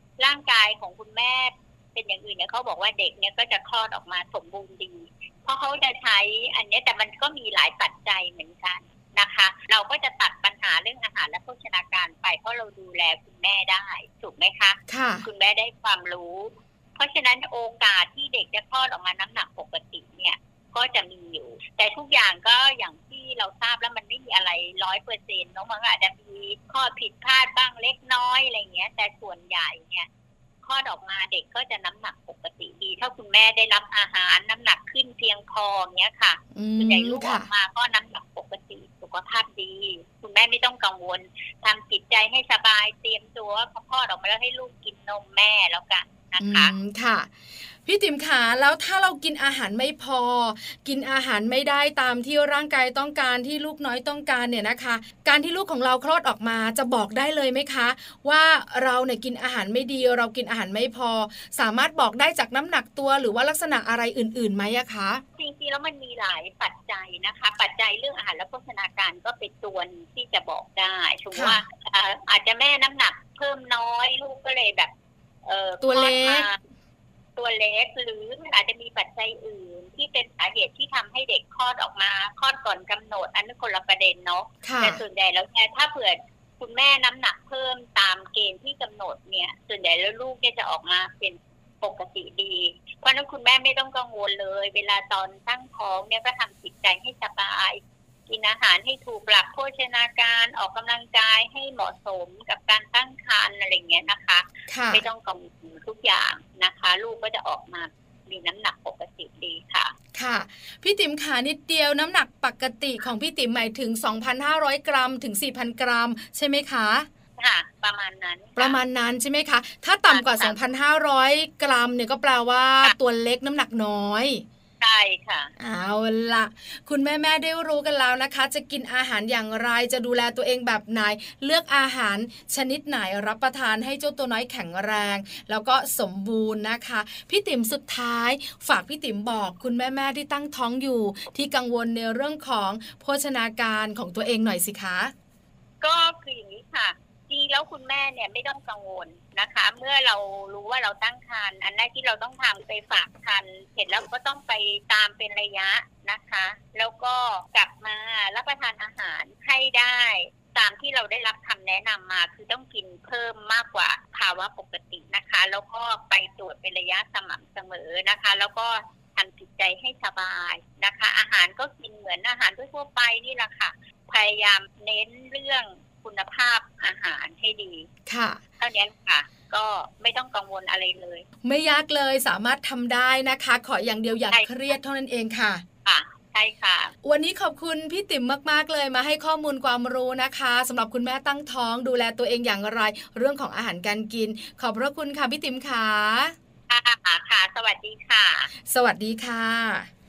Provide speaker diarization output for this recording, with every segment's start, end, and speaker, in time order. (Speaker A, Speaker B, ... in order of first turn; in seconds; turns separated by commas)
Speaker A: 0.2-30.1, Speaker B: 14.9-15.2, Speaker A: 30.6-46.7, Speaker B: 36.5-37.5, Speaker B: 46.4-47.3, Speaker B: 47.8-65.2, Speaker A: 65.3-74.9, Speaker B: 71.3-71.6, Speaker A: 75.5-76.6, Speaker B: 75.8-76.5, Speaker A: 77.3-109.9, Speaker B: 84.6-85.0, Speaker B: 104.7-105.0, Speaker B: 110.1-117.1, Speaker A: 117.4-118.8, Speaker B: 118.6-124.4, Speaker A: 120.1-120.6, Speaker A: 124.8-125.5, Speaker B: 125.6-145.1, Speaker A: 145.8-177.9, Speaker B: 178.1-178.4, Speaker A: 178.6-181.2, Speaker B: 181.4-185.6, Speaker A: 185.8-186.9, Speaker B: 187.0-196.3, Speaker A: 196.7-198.5, Speaker B: 198.7-199.9